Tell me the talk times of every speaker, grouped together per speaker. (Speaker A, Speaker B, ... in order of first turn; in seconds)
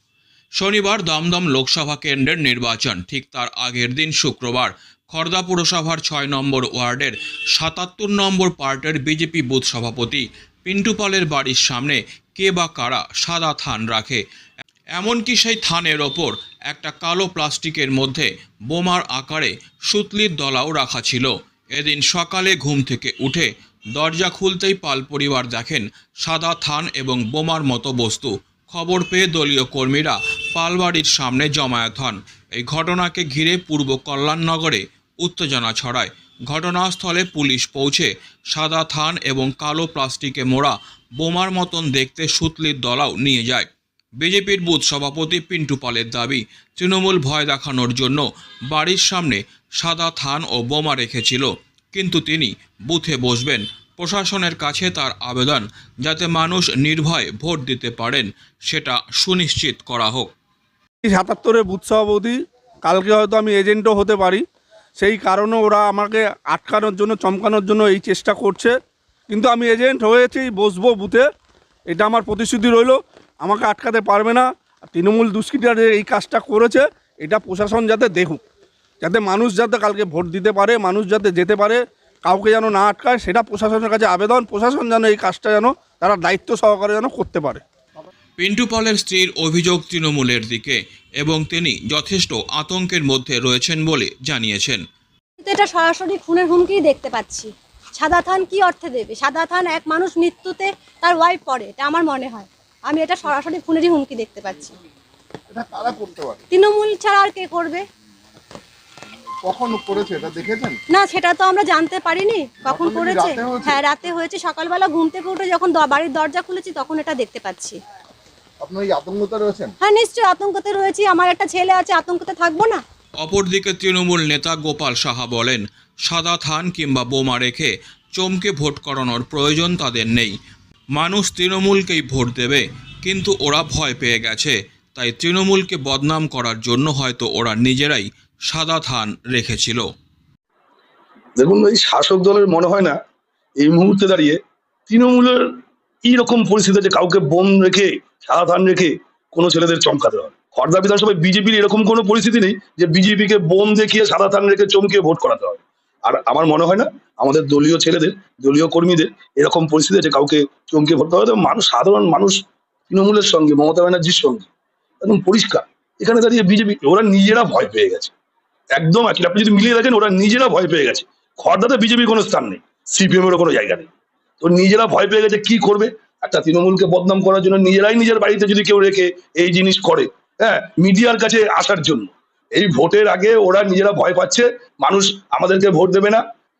Speaker A: 0.6-14.2, 14.9-43.7, 44.2-60.3, 88.4-94.8, 123.2-130.3, 130.9-139.8
Speaker B: 61.0-64.4, 65.0-68.7, 69.3-71.2, 71.9-78.4, 79.0-87.6
Speaker C: 95.4-104.7, 106.5-107.8, 110.9-117.8, 119.8-122.8
Speaker D: 105.5-106.4, 109.4-110.8, 112.7-113.8, 118.6-119.7
Speaker E: 141.4-143.0, 143.6-145.4, 146.0-164.5, 165.0-168.1, 168.8-173.9, 174.4-186.2